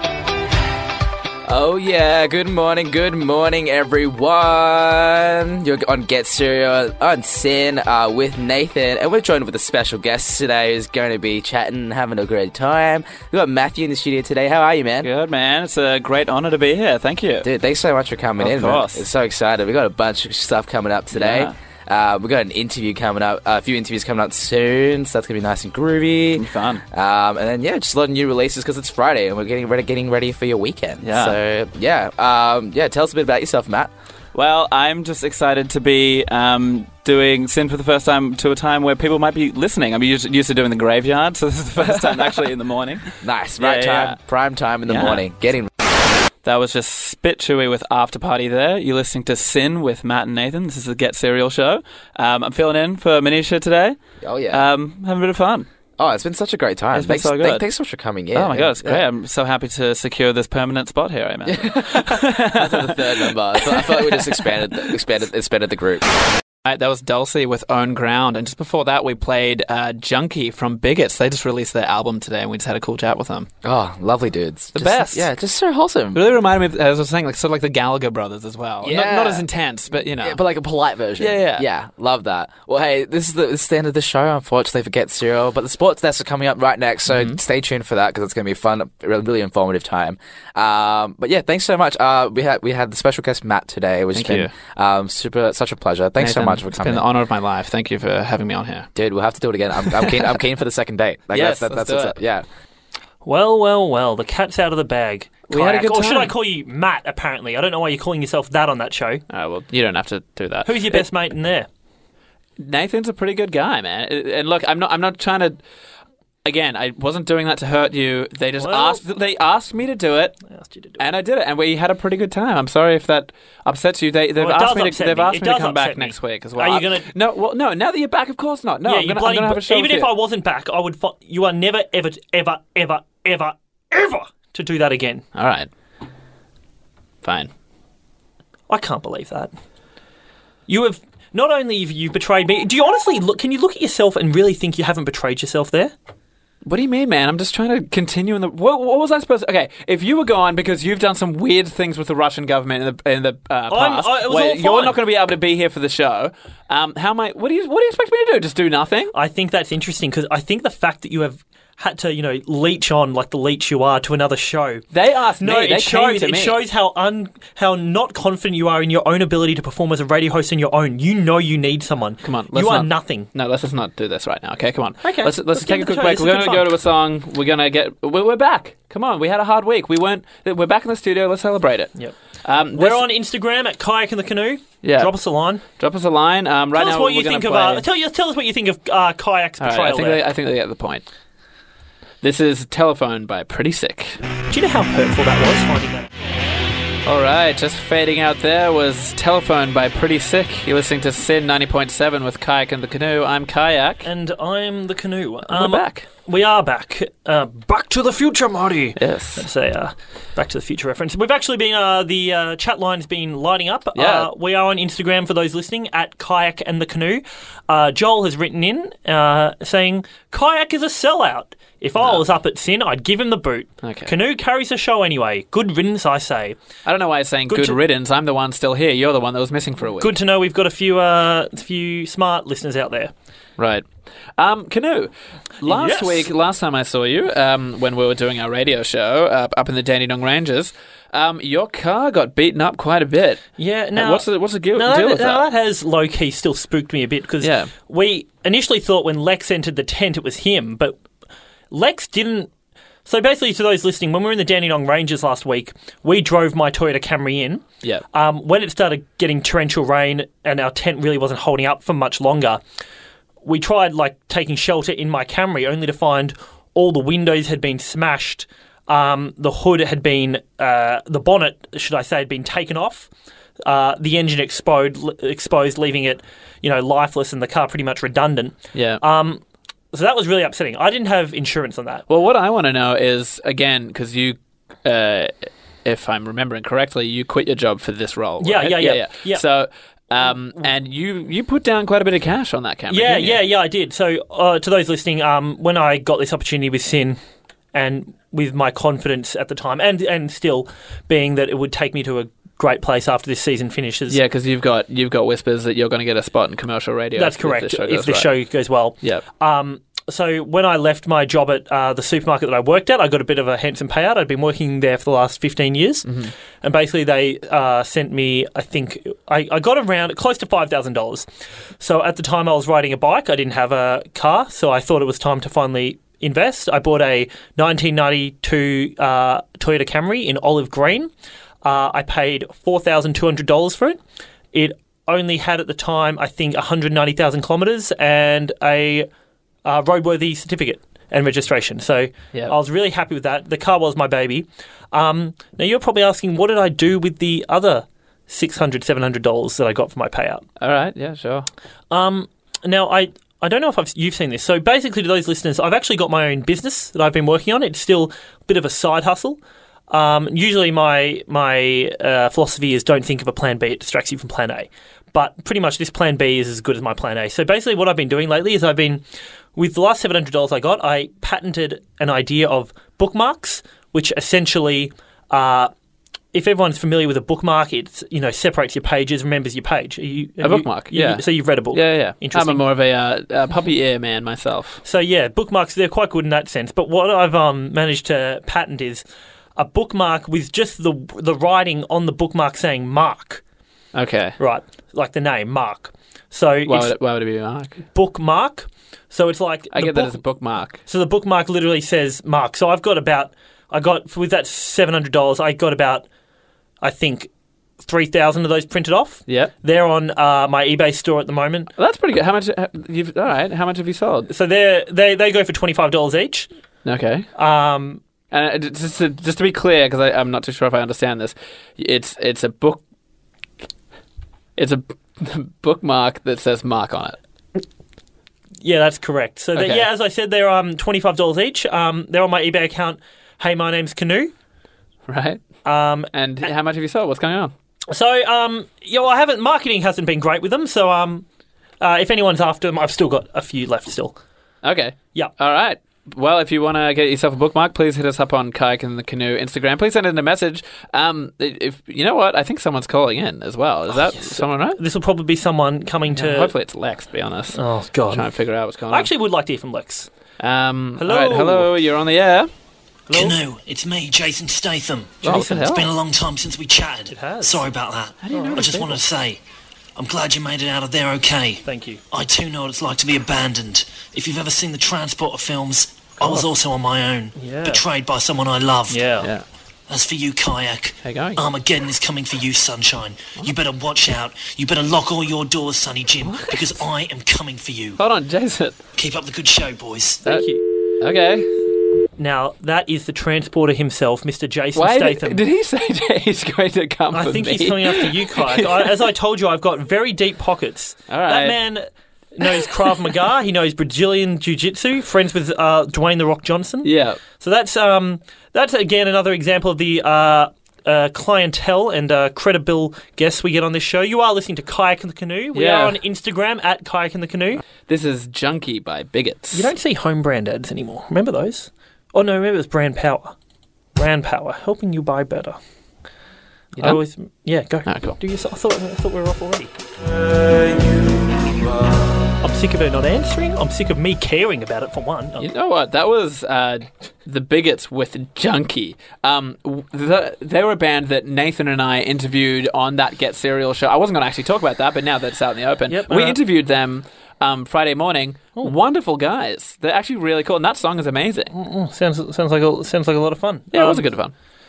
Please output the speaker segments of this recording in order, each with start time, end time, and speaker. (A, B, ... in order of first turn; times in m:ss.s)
0:01.5-0:15.1 A
0:15.0-0:17.5 B
0:17.4-0:33.9 A
0:18.4-0:19.0 B
0:21.1-0:21.5 B
0:26.4-0:26.8 B
0:31.0-0:31.4 B
0:34.3-0:43.0 B
0:43.2-0:45.7 A
0:43.6-0:44.2 B
0:46.4-0:54.0 B
0:54.2-0:54.6 A
0:54.5-0:55.7 B
0:56.0-0:59.0 A
0:56.9-0:57.6 B
0:58.3-1:02.5 B
1:01.5-1:06.1 A
1:04.0-1:04.5 C
1:06.6-1:13.5 C
1:13.6-1:16.2 A
1:14.8-1:15.3 C
1:16.1-1:20.4 C
1:18.8-1:37.1 A
1:21.2-1:21.7 C
1:27.1-1:27.4 C
1:34.1-1:34.5 C
1:36.2-1:38.9 C
1:39.0-1:42.4 A
1:41.3-1:42.2 C
1:43.2-1:49.2 D
1:45.5-1:46.4 C
1:49.3-1:51.0 C
1:50.6-1:51.7 D
1:52.6-1:55.6 C
1:56.4-2:00.4 C
1:58.6-1:59.0 D
2:00.5-2:01.0 D
2:01.0-2:10.1 C
2:04.4-2:07.1 D
2:08.8-2:15.2 D
2:15.4-2:15.7 C
2:17.2-2:17.5 C
2:18.7-2:19.5 D
2:20.7-2:25.9 D
2:26.6-2:39.1 C
2:33.7-2:35.0 D
2:39.1-2:44.8 D
2:44.9-2:46.6 C
2:45.4-2:53.3 D
2:52.2-3:03.1 C
2:55.0-2:56.7 D
3:02.7-3:05.6 D
3:04.8-3:07.8 C
3:06.8-3:10.2 D
3:09.6-3:11.0 C
3:12.2-3:14.2 C
3:14.5-3:16.1 D
3:17.0-3:24.1 C
3:24.0-3:46.6 D
3:25.5-3:26.1 C
3:29.0-3:29.5 C
3:34.0-3:34.3 C
3:43.8-3:44.1 C
3:46.8-3:50.2 C
3:47.5-3:47.8 D
3:50.0-3:53.1 D
3:53.6-4:05.4 C
3:55.7-3:56.3 D
4:03.6-4:11.0 D
4:07.4-4:07.7 C
4:11.7-4:12.5 D
4:13.1-4:22.6 D
4:23.4-4:33.1 D
4:33.6-4:42.0 D
4:38.7-4:39.0 C
4:42.1-4:53.4 C
4:48.4-4:49.4 D
4:52.9-4:57.2 D
4:57.7-5:04.2 D
5:04.1-5:08.4 C
5:07.2-5:16.1 D
5:16.1-5:16.3 C
5:16.6-5:21.3 D
5:21.8-5:31.1 D
5:31.6-5:34.0 D
5:34.5-5:39.1 D
5:39.6-5:50.4 D
5:50.6-5:51.5 C
5:51.9-5:59.4 D
5:59.9-6:09.0 D
6:09.6-6:15.7 D
6:16.3-6:22.6 D
6:20.4-6:24.8 C
6:24.8-6:29.0 D
6:29.6-6:33.4 D
6:33.9-6:34.4 C
6:34.4-6:36.9 D
6:36.7-6:37.9 C
6:37.9-6:40.2 D
6:39.7-6:40.8 C
6:40.9-6:46.1 D
6:46.8-6:47.3 D
6:47.8-6:51.7 D
6:49.3-6:49.5 C
6:51.8-6:54.3 C
6:54.3-6:56.5 D
6:56.8-6:57.3 C
6:57.4-6:58.0 D
6:58.3-7:02.8 C
7:04.6-7:07.2 C
7:08.6-7:14.3 D
7:09.6-7:09.9 C
7:15.1-7:15.4 C
7:15.6-7:16.5 D
7:16.1-7:17.5 C
7:17.9-7:21.2 D
7:21.8-7:24.2 D
7:24.6-7:34.8 C
7:34.1-7:36.5 D
7:36.1-7:37.6 C
7:37.6-7:38.2 D
7:38.1-7:39.1 C
7:38.9-7:40.1 D
7:40.4-7:42.5 C
7:41.0-7:41.7 D
7:43.1-7:43.4 D
7:43.1-7:49.4 E
7:45.2-7:45.8 D
7:45.2-7:45.9 C
7:47.1-7:47.7 D
7:48.2-7:49.0 C
7:48.3-7:49.0 D
7:50.0-7:59.1 E
7:51.6-7:52.0 D
7:57.4-7:57.8 D
7:58.9-7:59.3 D
7:59.2-7:59.4 C
7:59.9-8:08.0 E
8:01.0-8:01.4 C
8:06.2-8:06.6 C
8:08.0-8:08.8 C
8:09.0-8:10.2 E
8:10.2-8:10.6 D
8:11.0-8:11.5 C
8:12.2-8:15.4 D
8:14.8-8:18.9 C
8:17.1-8:37.6 D
8:21.1-8:21.6 C
8:26.8-8:27.2 C
8:35.5-8:36.0 C
8:37.8-8:39.7 C
8:39.5-8:43.4 D
8:44.0-8:45.6 D
8:46.8-8:47.0 C
8:46.8-8:49.7 D
8:47.9-8:48.2 C
8:52.4-8:55.5 D
8:55.4-9:11.5 C
9:05.9-9:06.4 D
9:11.5-9:14.1 D
9:13.7-9:14.3 C